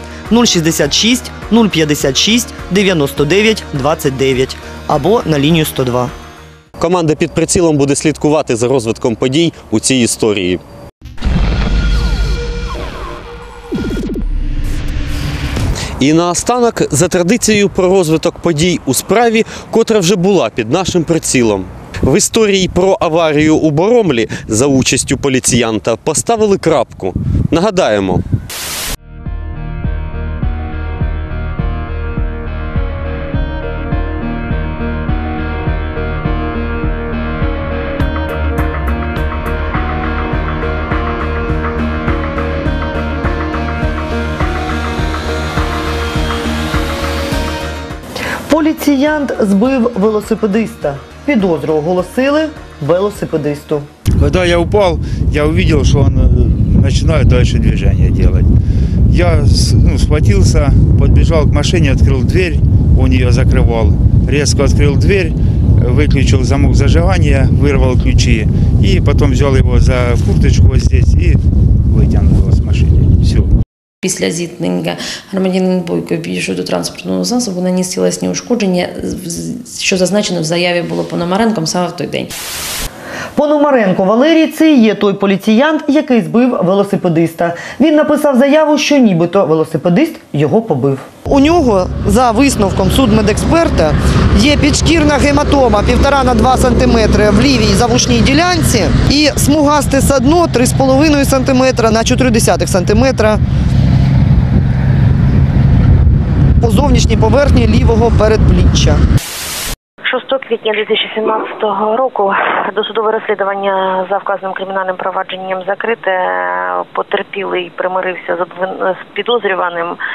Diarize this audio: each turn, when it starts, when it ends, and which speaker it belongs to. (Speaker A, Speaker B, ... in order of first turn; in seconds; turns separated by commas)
Speaker A: 0.3-6.1, Speaker B: 6.8-10.6, Speaker B: 16.0-28.2, Speaker A: 48.5-53.9, Speaker C: 54.2-58.5, Speaker C: 59.1-71.4, Speaker C: 71.9-73.5, Speaker D: 74.0-82.3, Speaker A: 83.3-103.4, Speaker A: 106.6-109.0, Speaker E: 110.0-120.0